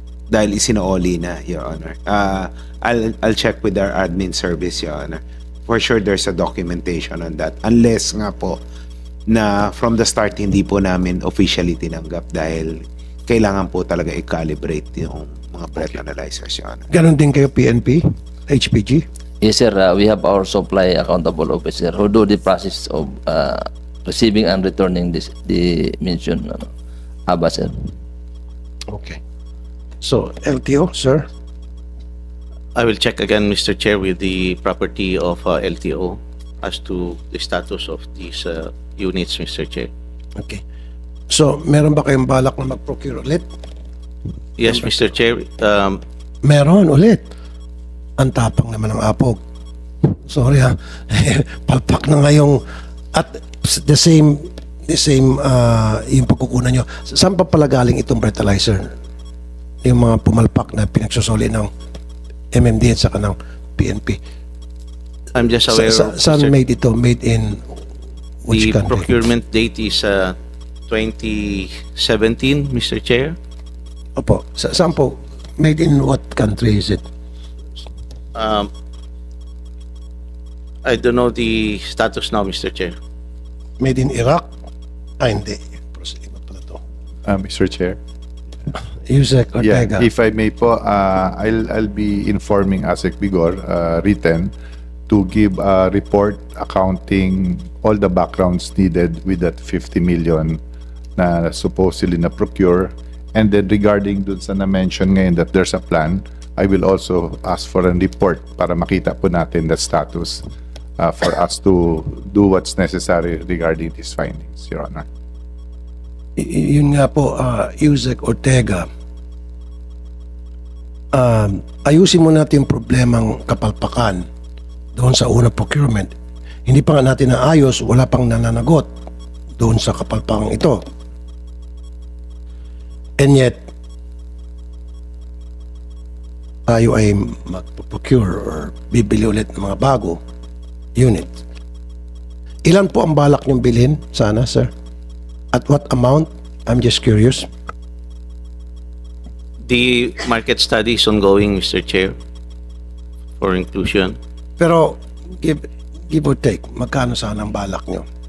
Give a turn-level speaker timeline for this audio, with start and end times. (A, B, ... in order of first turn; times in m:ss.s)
0:00.3-0:08.6 A
0:09.3-0:16.9 A
0:16.9-0:19.0 B
0:19.4-0:26.7 C
0:27.3-0:27.9 C
0:28.9-0:29.2 B
0:30.0-0:31.3 B
0:32.8-0:39.9 D
0:41.3-0:43.4 B
0:44.6-0:46.0 D
0:44.6-0:45.1 B
0:46.4-0:47.2 B
0:48.2-0:49.4 B
0:50.0-0:52.6 B
0:53.1-0:58.9 B
0:59.8-1:01.7 B
1:02.5-1:04.2 B
1:05.4-1:06.5 D
1:05.7-1:07.8 B
1:08.4-1:09.1 B
1:08.5-1:10.4 D
1:10.9-1:13.4 D
1:14.2-1:17.0 B
1:18.4-1:18.7 D
1:20.8-1:23.0 D
1:23.8-1:24.5 B
1:25.2-1:26.8 B
1:27.2-1:28.0 E
1:29.1-1:30.1 B
1:29.6-1:34.5 E
1:35.1-1:40.6 E
1:41.2-1:50.4 E
1:51.0-1:55.0 E
1:56.4-1:58.9 B
2:01.1-2:04.2 B
2:05.0-2:06.1 B
2:06.7-2:08.9 B
2:09.6-2:10.8 B
2:13.2-2:13.7 B
2:16.7-2:20.2 B
2:21.0-2:21.4 B
2:22.6-2:24.7 B
2:25.5-2:27.5 B
2:29.6-2:32.1 D
2:33.4-2:34.2 D
2:34.6-2:38.0 B